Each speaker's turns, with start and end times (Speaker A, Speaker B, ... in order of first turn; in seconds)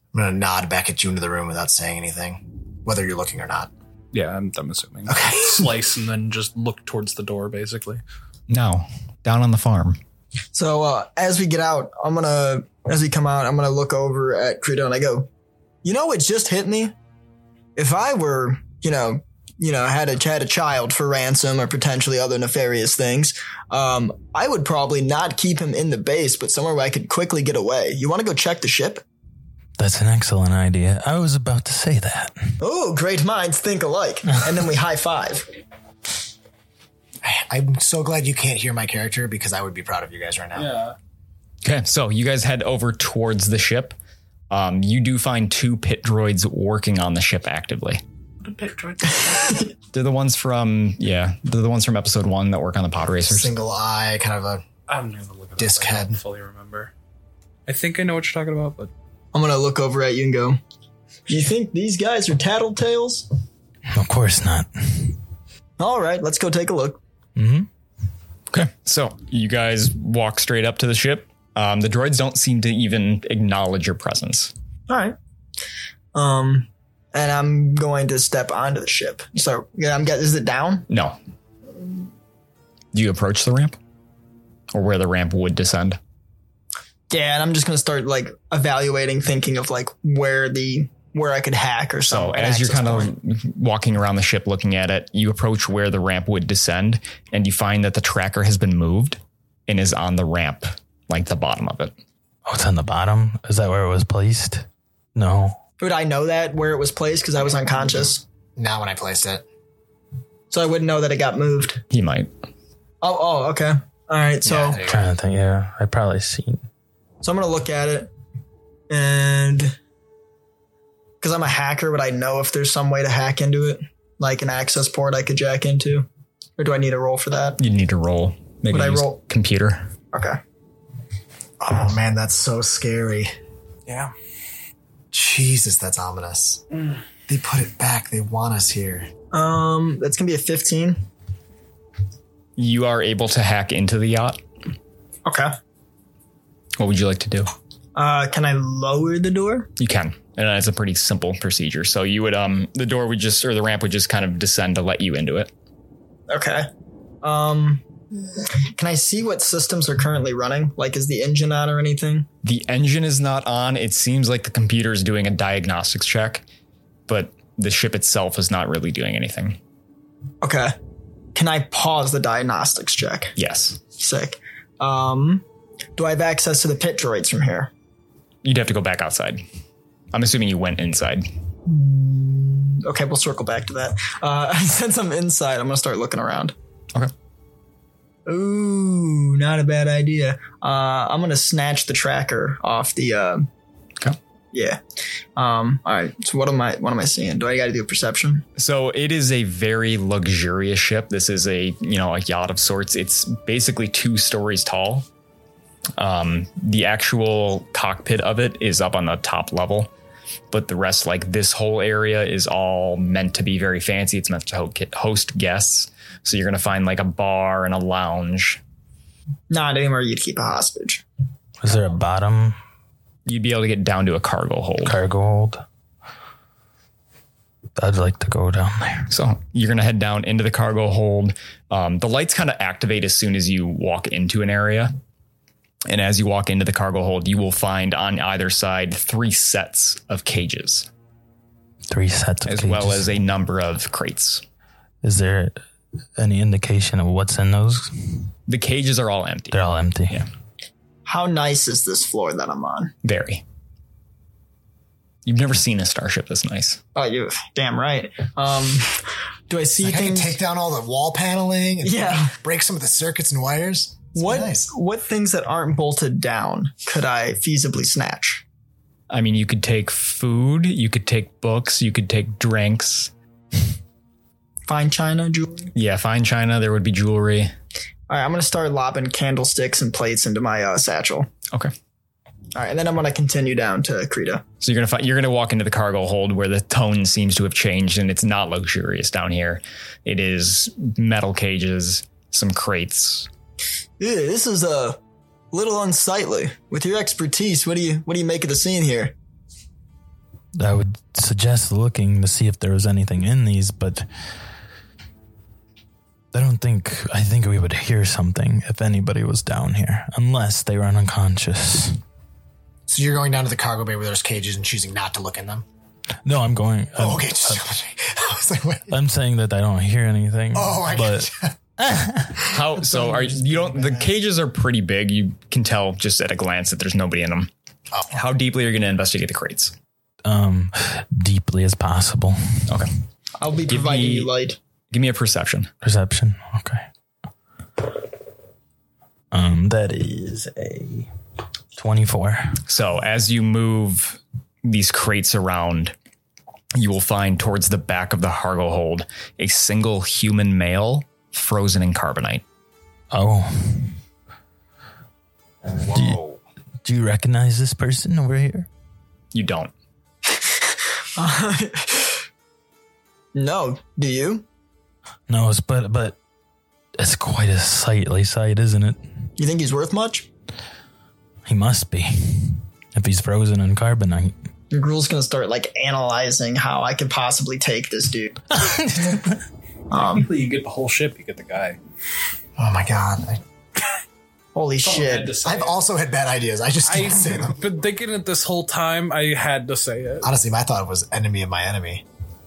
Speaker A: 0.1-3.7, 5.1-5.7, 37.2-40.7, 53.2-54.6, 55.6-56.2, 108.6-109.4, 114.4-115.1, 131.6-133.3, 135.1-136.6, 137.3-139.1, 259.8-264.7, 312.9-315.6, 316.9-318.9, 320.5-321.5, 322.8-324.1, 382.6-383.4, 385.4-387.6, 390.2-392.0
Speaker B: 4.1-8.0, 40.5-41.0, 48.4-49.7, 54.9-56.9, 57.7-58.9, 133.8-134.1, 379.9-381.8, 384.8-385.8, 386.8-390.3
Speaker C: 8.5-10.0, 41.6-43.9, 44.5-48.0, 49.9-53.5, 68.5-74.5, 80.9-81.2, 82.9-83.8, 84.7-86.0, 92.0-101.9, 111.9-112.3, 127.6-129.9, 142.6-144.4, 146.8-147.5, 149.8-155.5, 162.4-166.4, 167.1-169.6, 173.3-173.8, 178.4-179.4, 180.1-181.3, 198.6-205.1, 206.0-209.9, 210.5-218.6, 223.2-225.0, 229.1-234.9, 235.9-240.9, 242.4-244.4, 248.5-250.3, 253.0-253.4, 255.2-256.8, 269.1-273.1, 275.7-277.5, 284.6-293.3, 322.4-327.5, 328.1-329.7, 333.7-334.3, 334.9-335.7, 342.7-345.9, 346.8-352.4, 359.3-359.7
Speaker D: 10.5-15.3, 15.8-16.9, 17.8-29.0, 32.6-35.5, 59.3-60.6, 61.3-63.2, 65.8-67.0, 74.9-75.2, 76.1-80.9, 87.1-93.1, 105.8-108.2, 110.5-111.8, 113.0-114.8, 117.2-118.1, 118.9-119.8, 121.2-127.6, 128.7-129.2, 130.1-130.4, 139.3-141.0, 145.2-145.5, 147.9-149.7, 156.3-156.7, 157.2-157.8, 158.7-162.3, 170.4-170.7, 171.3-173.3, 174.0-175.4, 176.0-177.7, 181.7-186.5, 188.3-193.5, 194.5-194.8, 195.3-198.4, 219.5-221.0, 251.1-252.9, 256.9-260.4, 261.8-262.3, 264.1-268.4, 274.7-275.7, 278.1-281.3, 282.5-284.4, 294.0-295.0, 295.5-299.1, 333.4-334.6, 361.1-362.2, 363.3-364.4, 369.4-370.3, 374.7-379.0, 379.9-380.3, 384.5-385.4
Speaker E: 29.8-32.5, 63.9-65.2, 67.3-67.7, 102.5-105.6, 114.8-116.6, 221.6-222.6, 224.8-225.6, 227.8-229.1, 241.9-243.1, 245.0-245.6, 246.2-248.3, 249.5-250.2, 300.5-304.1, 306.3-312.0, 316.2-317.6, 318.9-322.5, 330.2-332.4, 335.8-336.8, 339.3-341.1, 341.8-342.6, 353.1-354.0, 355.8-356.2, 356.8-358.7, 365.3-366.2, 367.0-369.0, 371.4-374.3, 378.6-379.4